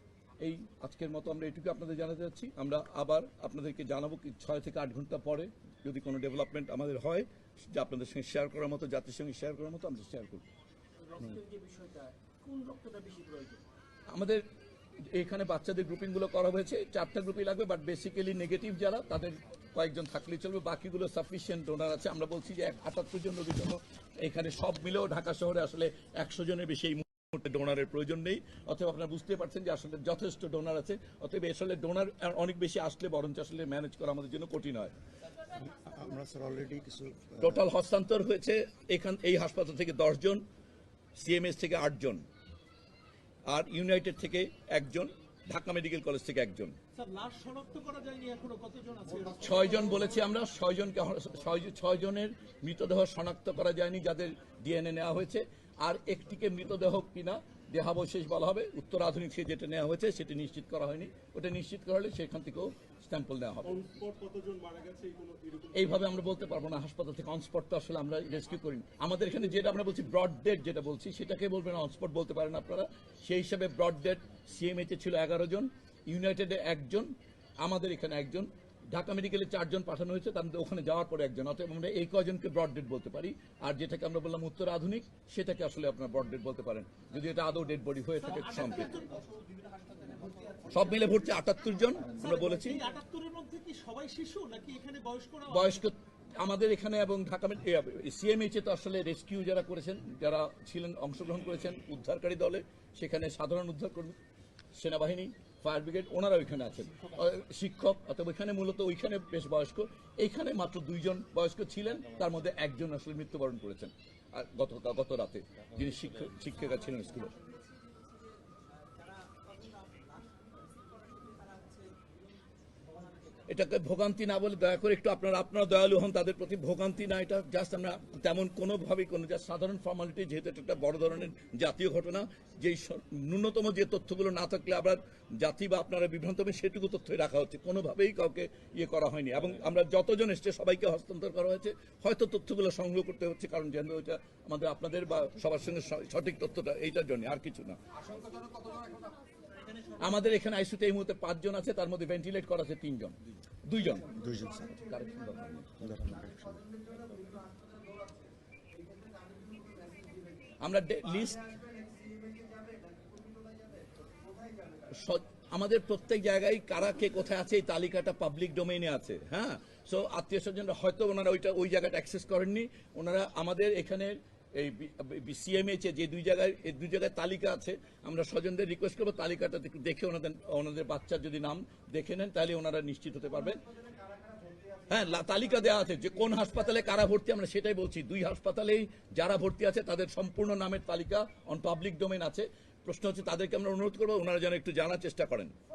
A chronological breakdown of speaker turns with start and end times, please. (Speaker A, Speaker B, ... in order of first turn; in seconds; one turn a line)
Speaker A: 0.4-10.5
Speaker B: 11.1-13.6
Speaker A: 14.1-14.4
Speaker A: 15.1-34.9
Speaker C: 35.6-37.6
Speaker A: 37.4-40.4
Speaker A: 41.2-42.2
Speaker A: 43.5-46.7
Speaker B: 47.0-50.0
Speaker A: 49.4-63.8
Speaker B: 63.7-65.9
Speaker A: 65.7-77.1
Speaker A: 77.6-88.9
Speaker B: 88.2-91.1
Speaker A: 90.7-92.8
Speaker B: 92.2-95.8
Speaker A: 95.5-104.2
Speaker A: 104.8-117.3
Speaker B: 119.0-122.1
Speaker A: 123.5-147.8
Speaker A: 150.0-153.2
Speaker A: 153.7-154.1
Speaker C: 154.1-154.8
Speaker A: 154.8-155.7
Speaker C: 155.8-156.8
Speaker A: 160.6-161.4
Speaker A: 165.0-183.6
Speaker A: 184.9-195.5